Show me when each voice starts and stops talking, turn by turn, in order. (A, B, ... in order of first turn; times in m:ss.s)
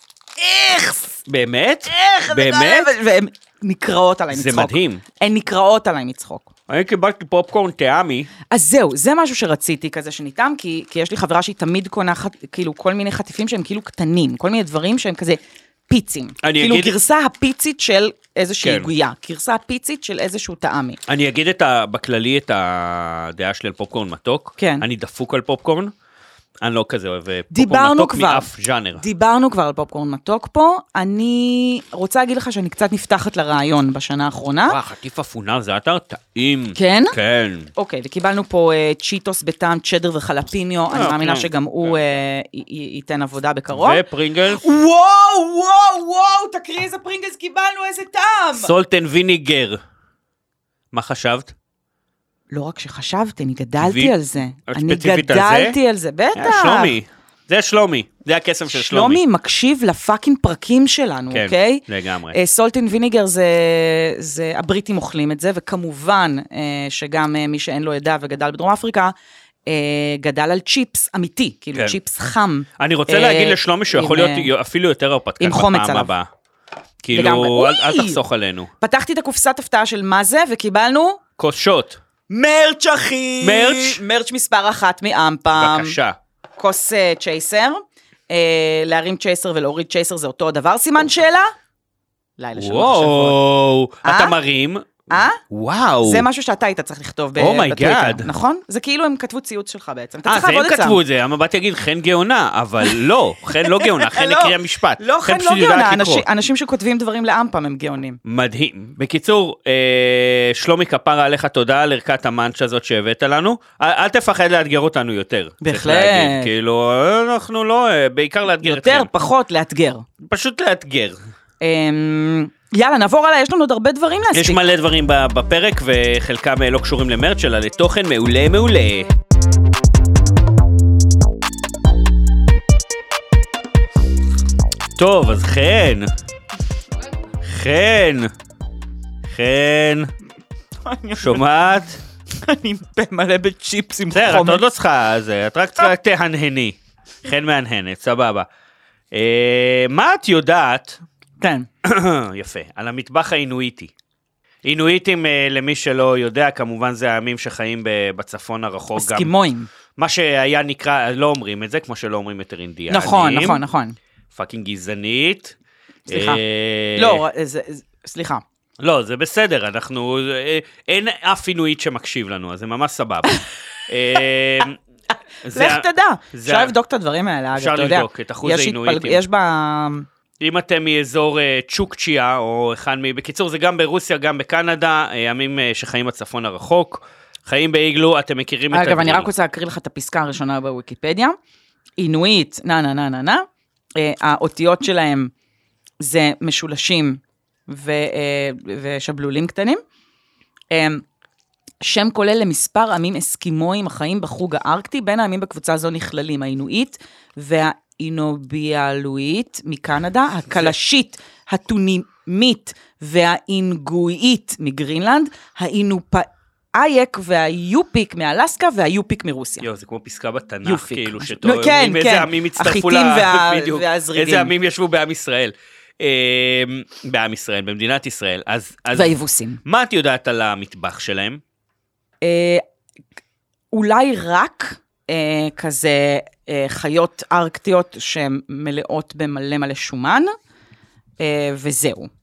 0:00.4-0:01.2 A
0:01.2-0:02.9 B
0:01.9-0:06.5 A
0:04.3-0:05.0 B
0:06.7-0:08.3 B
0:08.5-0:21.0 A
0:16.4-0:16.9 B
0:18.6-0:18.9 B
0:21.1-0:25.9 B
0:24.6-0:24.8 A
0:26.6-0:29.0 B
0:27.5-0:34.8 A
0:34.7-0:37.7 B
0:36.7-0:37.1 A
0:37.8-0:48.7 A
0:40.9-0:42.0 B
0:43.7-0:44.6 B
0:48.5-0:49.8 B
0:50.9-0:51.5 B
0:52.5-0:57.0 A
0:53.8-0:54.1 B
0:54.7-0:55.8 B
0:56.3-0:59.2 B
0:58.7-1:09.1 A
1:01.3-1:02.4 B
1:09.7-1:14.5 A
1:12.8-1:16.3 B
1:15.4-1:16.1 A
1:17.0-1:18.7 B
1:17.1-1:18.2 A
1:18.8-1:21.2 A
1:21.4-1:22.0 B
1:22.3-1:26.0 A
1:23.4-1:24.0 B
1:25.5-1:26.2 B
1:26.6-1:31.5 A
1:32.4-1:33.4 A
1:32.6-1:36.2 B
1:34.0-1:34.4 A
1:35.1-1:35.4 A
1:36.0-1:41.0 A
1:37.4-1:38.3 B
1:40.2-1:46.2 B
1:43.6-1:48.2 A
1:48.2-1:59.1 B
1:55.6-1:56.5 A
1:58.6-2:00.0 A
2:00.2-2:01.2 B
2:01.6-2:04.6 A
2:04.3-2:09.1 B
2:15.0-2:16.1 B
2:17.4-2:18.3 B
2:19.3-2:20.1 B
2:20.8-2:21.4 A
2:21.2-2:22.0 B
2:22.4-2:24.6 A
2:24.1-2:28.5 B
2:29.1-2:31.0 B
2:31.4-2:31.7 A
2:31.8-2:33.9 B
2:34.6-2:39.3 B
2:39.0-2:39.7 A
2:40.0-2:43.6 B
2:42.9-2:44.0 A
2:44.3-2:45.5 B
2:46.1-2:47.2 B
2:46.1-2:46.4 A
2:47.0-2:48.4 A
2:48.8-2:53.4 B
2:53.9-2:54.8 B
2:55.4-2:56.7 B
2:55.5-3:00.0 A
2:57.6-2:59.2 B
3:00.4-3:09.3 B
3:08.7-3:11.4 A
3:12.0-3:13.4 A
3:14.0-3:15.3 A
3:16.0-3:19.8 A
3:20.7-3:21.0 A
3:21.8-3:39.6 A
3:39.6-3:51.4 B
3:40.6-3:44.5 A
3:48.9-3:49.6 A
3:52.2-3:52.6 A
3:53.7-4:00.3 A
4:01.2-4:02.1 A